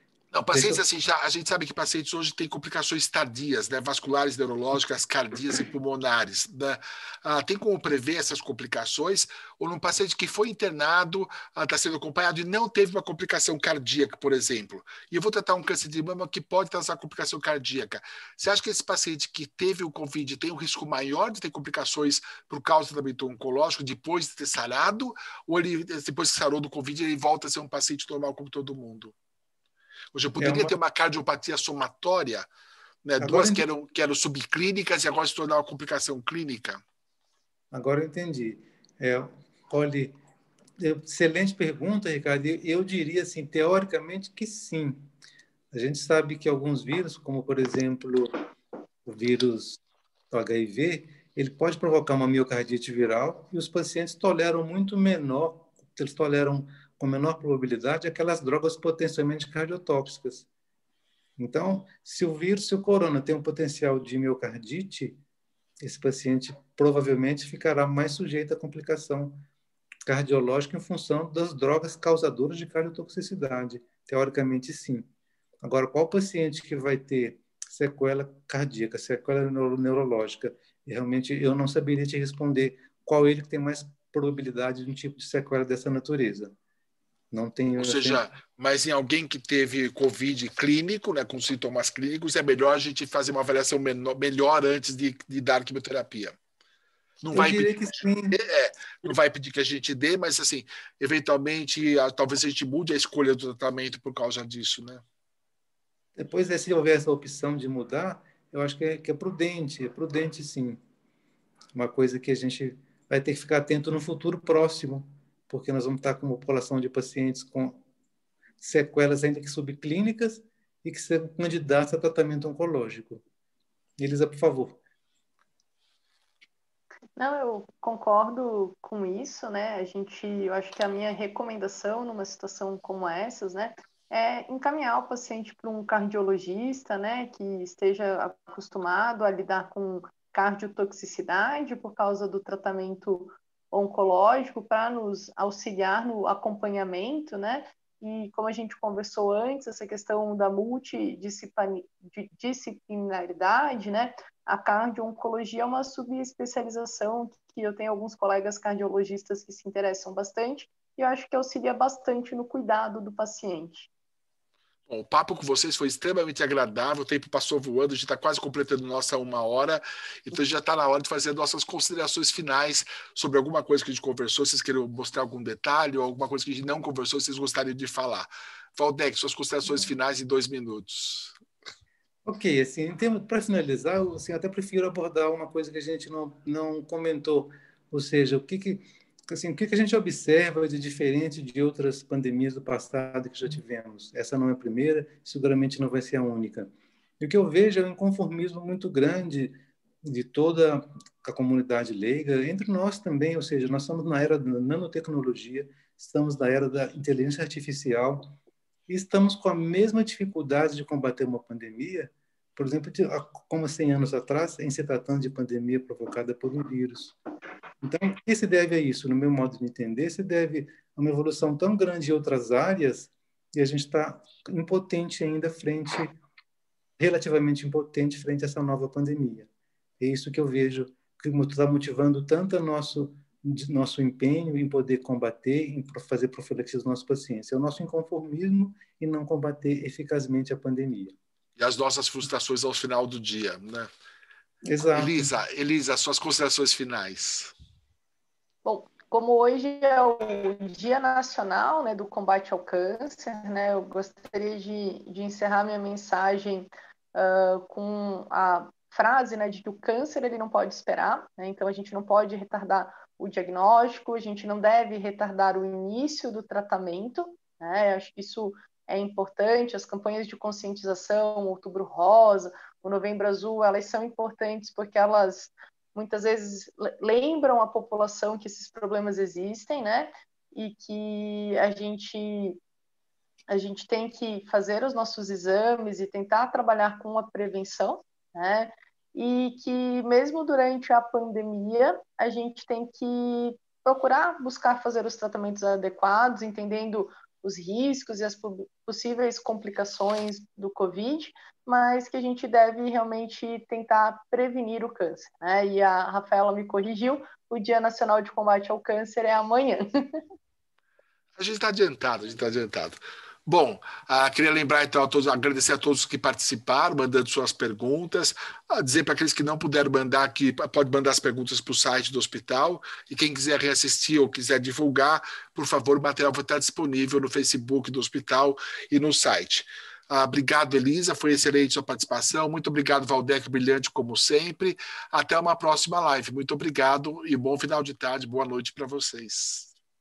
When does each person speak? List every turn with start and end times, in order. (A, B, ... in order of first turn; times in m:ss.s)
0:00.3-0:29.2 A
0:00.5-0:00.8 B
0:30.1-0:32.5 A
0:30.4-0:30.7 B
0:33.0-0:36.8 A
0:33.2-0:33.6 B
0:37.7-0:40.2 B
0:40.8-0:45.1 B
0:45.7-0:48.3 B
0:49.1-1:00.5 B
1:01.4-1:05.2 B
1:05.8-1:09.4 B
1:10.1-1:15.1 B
1:15.6-1:26.6 B
1:27.3-1:28.2 B
1:27.8-1:36.4 A
1:37.2-1:37.8 A
1:37.3-1:38.4 B
1:38.3-1:45.0 A
1:46.2-1:50.8 B
1:51.8-1:57.8 B
1:58.6-2:03.2 B
2:04.0-2:04.8 B
2:07.2-2:43.9 C
2:44.9-3:01.4 A
3:02.3-3:28.3 B
3:28.9-3:37.2 B
3:37.8-3:46.2 B
3:47.0-3:49.5 B
3:50.0-4:01.2 B
4:01.6-4:03.9 A
4:04.6-4:05.3 B
4:04.9-4:07.5 A
4:08.6-4:42.6 C
4:43.5-5:10.2 C
5:11.4-5:39.7 A